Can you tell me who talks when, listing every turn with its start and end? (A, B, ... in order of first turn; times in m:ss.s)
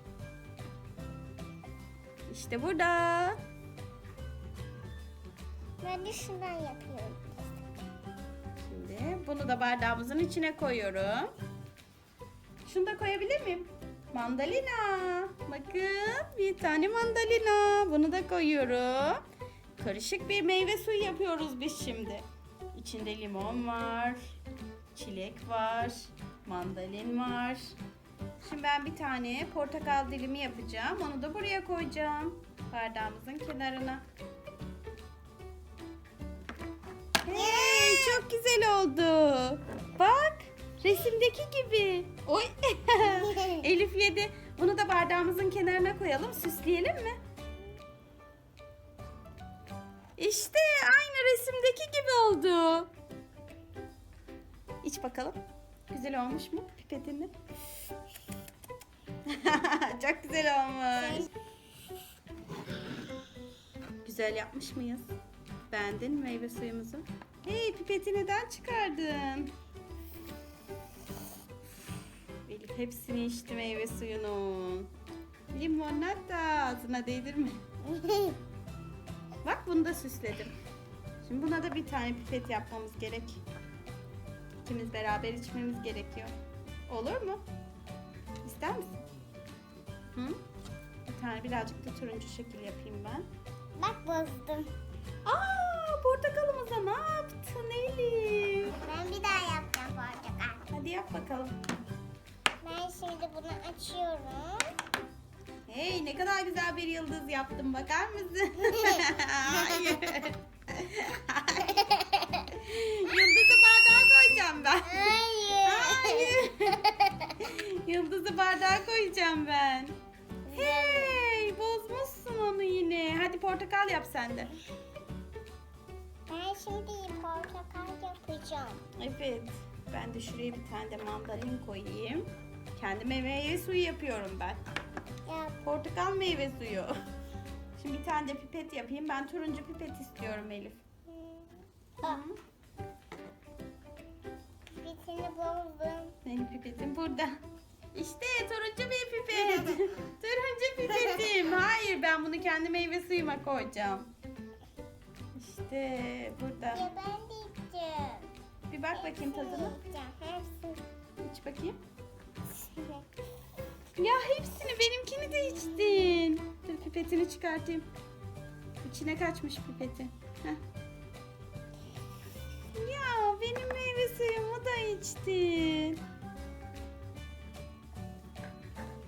0:02.3-0:03.4 A
0:05.8-0:07.5 B
0:08.6-0:11.3 A
0:12.6-0:19.2 A
0:19.8-0:24.2 A
0:24.9-0:27.7 A
0:28.4-0:34.0 A
0:37.2-0:47.2 A
0:37.3-0:38.2 B
0:43.1-0:43.6 B
0:50.2-0:52.9 A
0:54.8-0:55.4 A
0:55.9-0:57.3 A
0:59.2-1:01.3 A
1:01.0-1:01.3 B
1:04.0-1:05.1 A
1:05.7-1:09.5 A
1:12.4-1:14.9 A
1:15.5-1:17.6 A
1:17.8-1:18.4 B
1:19.4-1:20.5 A
1:21.2-1:23.4 A
1:24.6-1:26.3 A
1:26.9-1:27.4 A
1:28.4-1:29.0 A
1:30.1-1:30.4 A
1:31.0-1:33.2 A
1:33.8-1:34.7 B
1:35.2-1:38.8 A
1:38.8-1:40.6 B
1:40.7-1:41.5 A
1:42.6-1:44.7 B
1:45.7-1:51.9 A
1:48.7-1:50.0 B
1:51.6-1:52.5 B
1:52.5-1:56.8 A
1:54.8-1:57.3 B
1:57.4-1:59.9 A
2:00.4-2:01.2 B
2:00.5-2:04.5 A
2:06.3-2:08.8 B
2:09.0-2:14.6 A
2:15.3-2:15.6 B
2:15.6-2:16.9 A
2:17.8-2:20.8 A
2:21.1-2:22.2 B
2:22.0-2:22.4 A
2:24.8-2:26.1 B
2:26.2-2:27.3 A
2:27.9-2:34.1 A
2:29.4-2:29.8 B
2:30.9-2:31.3 B
2:35.3-2:36.9 A
2:36.7-2:38.3 B
2:38.7-2:39.8 A
2:38.9-2:40.8 B
2:41.2-2:41.8 A
2:42.5-2:43.0 B
2:44.0-2:47.8 A
2:45.3-2:46.0 B
2:48.8-2:50.6 A
2:52.7-2:56.0 A